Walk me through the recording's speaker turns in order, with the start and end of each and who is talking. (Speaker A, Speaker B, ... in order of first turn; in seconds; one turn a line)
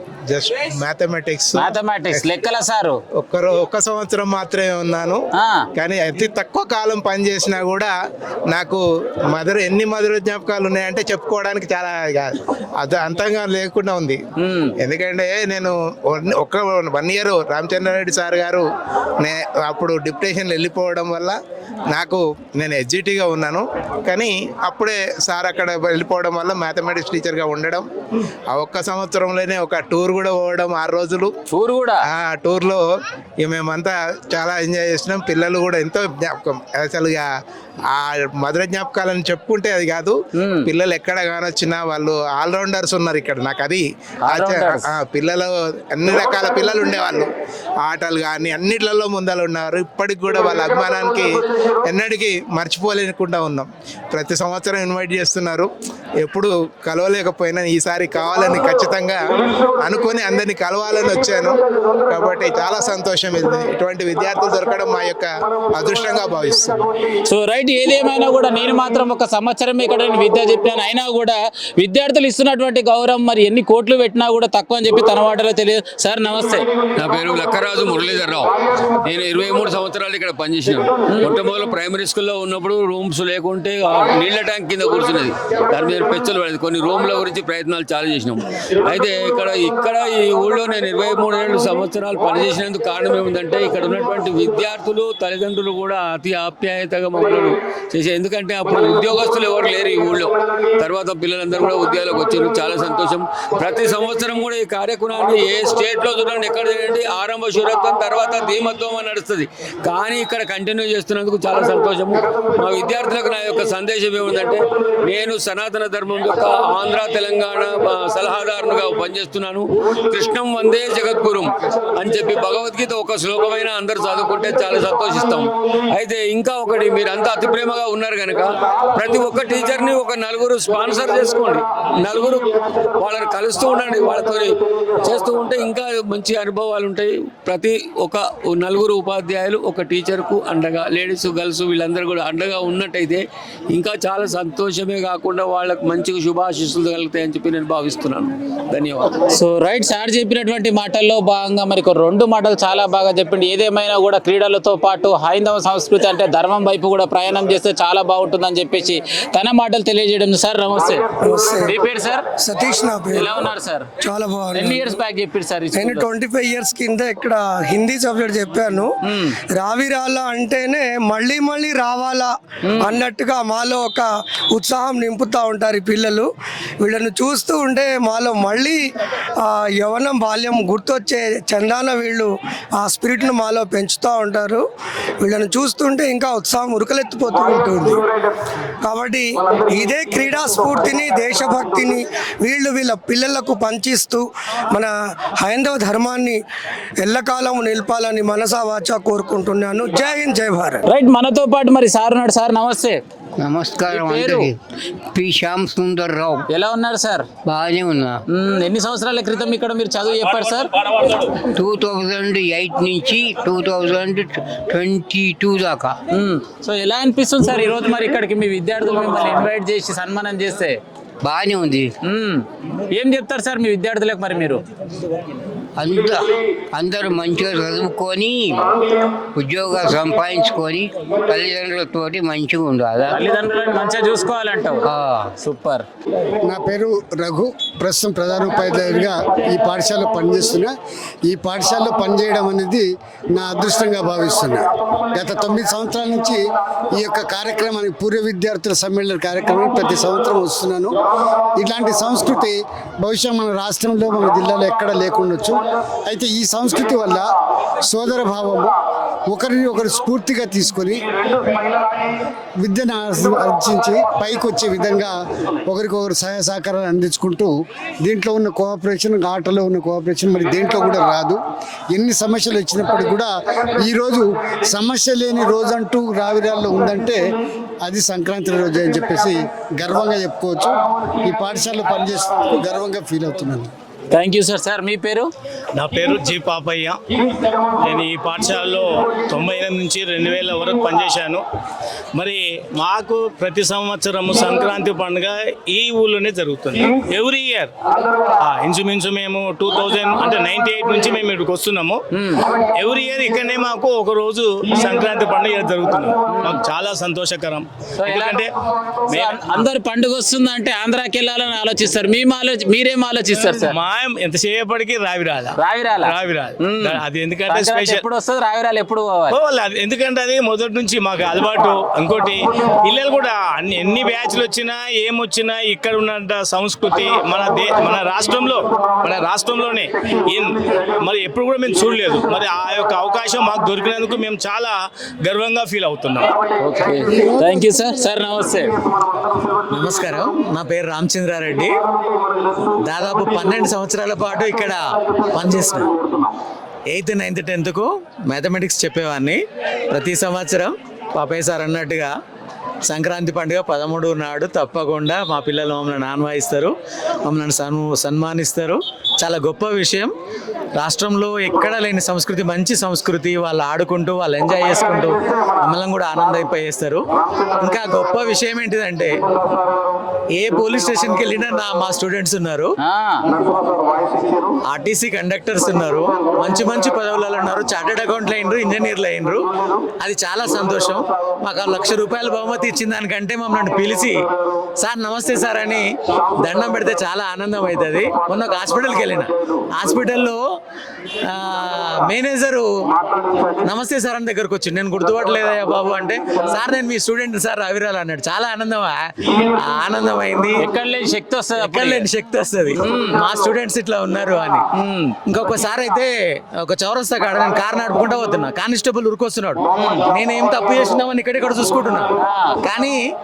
Speaker A: 0.3-2.2
Speaker B: 1.6-3.0
Speaker A: 3.2-5.2
Speaker B: 5.3-5.7
Speaker A: 5.8-7.9
Speaker A: 8.5-14.2
Speaker B: 14.4-14.7
Speaker A: 14.8-18.6
Speaker A: 19.2-21.4
Speaker A: 21.9-27.9
Speaker A: 28.5-31.3
Speaker B: 31.5-32.0
Speaker A: 32.1-32.8
Speaker A: 33.4-37.3
Speaker A: 37.9-47.3
Speaker B: 40.4-40.7
Speaker B: 44.3-44.9
Speaker A: 47.8-55.7
Speaker A: 56.2-59.2
Speaker A: 59.8-61.6
Speaker A: 62.1-66.7
Speaker B: 67.3-76.7
Speaker C: 77.0-78.5
Speaker C: 79.0-149.2
Speaker B: 81.1-81.4
Speaker B: 149.3-161.1
Speaker D: 161.2-161.8
Speaker B: 161.7-162.3
Speaker D: 162.4-163.3
Speaker B: 163.1-163.9
Speaker D: 164.0-164.9
Speaker B: 164.5-166.1
Speaker D: 165.7-168.9
Speaker B: 169.0-169.4
Speaker D: 169.5-176.3
Speaker B: 172.6-173.0
Speaker D: 176.8-178.8
Speaker D: 179.4-184.6
Speaker D: 185.2-188.0
Speaker D: 188.8-196.4
Speaker D: 197.0-200.8
Speaker B: 200.9-203.0
Speaker E: 203.4-204.6
Speaker B: 203.9-204.5
Speaker E: 205.1-206.4
Speaker B: 206.5-207.3
Speaker E: 207.4-208.2
Speaker B: 208.3-210.7
Speaker E: 211.4-215.9
Speaker B: 216.1-220.8
Speaker E: 221.2-221.9
Speaker B: 222.0-224.6
Speaker E: 225.8-228.6
Speaker E: 229.3-233.3
Speaker B: 233.1-234.8
Speaker E: 234.8-235.3
Speaker B: 235.4-235.8
Speaker F: 236.4-240.7
Speaker F: 241.3-246.4
Speaker F: 246.9-250.9
Speaker F: 251.6-257.3
Speaker F: 257.9-258.7
Speaker F: 259.3-261.0
Speaker F: 262.6-265.1
Speaker F: 265.7-271.4
Speaker F: 271.9-277.2
Speaker F: 277.8-283.7
Speaker B: 284.1-285.3
Speaker G: 285.8-287.0
Speaker G: 287.8-291.4
Speaker G: 292.1-297.7
Speaker G: 298.4-302.0
Speaker B: 302.1-302.4
Speaker G: 302.8-308.5
Speaker B: 306.3-306.6
Speaker B: 308.0-308.4
Speaker G: 309.1-309.6
Speaker B: 309.1-313.7
Speaker G: 313.4-318.0
Speaker B: 315.6-319.3
Speaker G: 319.3-334.7
Speaker G: 335.2-336.3
Speaker B: 336.6-338.7
Speaker H: 339.7-341.7
Speaker H: 342.8-344.8
Speaker H: 345.3-345.9
Speaker H: 346.9-349.4
Speaker H: 349.9-352.1
Speaker H: 352.9-356.7
Speaker H: 357.2-360.1
Speaker H: 360.8-367.0
Speaker H: 367.6-369.2
Speaker H: 370.4-372.7
Speaker B: 372.8-373.2
Speaker H: 374.7-379.4
Speaker H: 380.0-384.2
Speaker H: 384.8-390.4
Speaker H: 391.3-392.7
Speaker H: 393.6-400.7
Speaker B: 400.6-402.1
Speaker H: 401.6-404.6
Speaker B: 402.8-403.2
Speaker B: 404.7-405.1
Speaker H: 405.3-412.1
Speaker B: 409.8-410.0
Speaker B: 412.2-412.6
Speaker H: 412.6-413.0